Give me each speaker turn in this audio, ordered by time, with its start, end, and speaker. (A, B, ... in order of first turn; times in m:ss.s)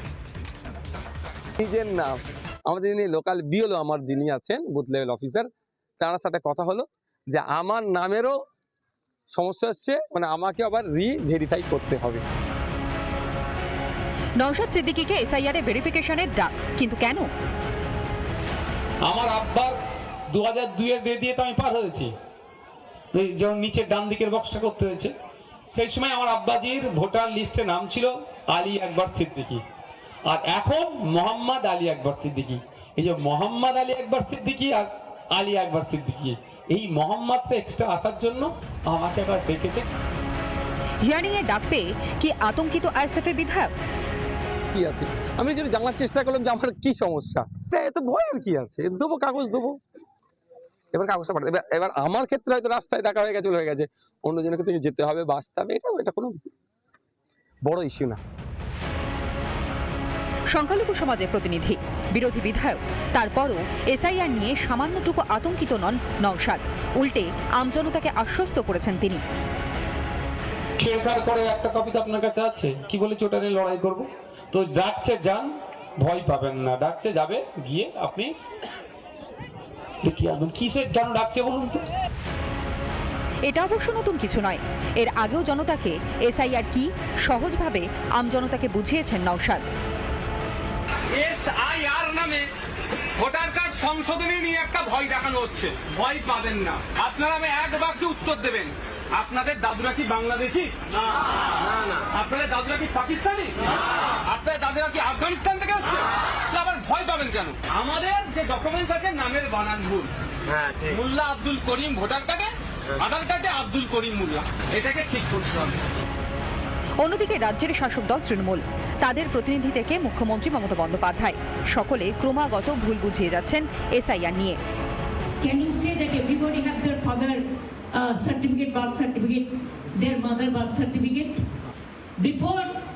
0:01.6-0:02.2 A
0:02.7-0:05.5 A
0:06.0-0:08.4 A
0:09.3-0:12.2 A
0:14.4-0:17.3 B
0:19.0-0:19.7 C
0:20.3-0:22.1 C
0:23.1-0:25.1 C
0:25.8-0:29.6 C
0:30.3-0:39.8 C
0:41.1-0:43.6 B
0:44.7-0:49.8 A
0:50.9-0:56.4 A
0:57.6-0:58.2 A
1:00.6-1:09.2 B
1:10.8-1:15.5 C
1:16.0-1:18.3 C
1:20.0-1:21.8 C
1:23.5-1:29.5 B
1:31.2-1:32.4 D
1:33.2-1:38.7 D
1:39.2-1:40.7 D
1:42.1-1:44.0 D
1:44.5-1:46.8 D
1:47.5-1:50.0 D
1:51.1-1:52.5 D
1:53.1-1:55.8 D
1:57.0-2:04.6 B
2:05.4-2:07.4 E
2:08.0-2:11.4 E
2:12.2-2:12.7 E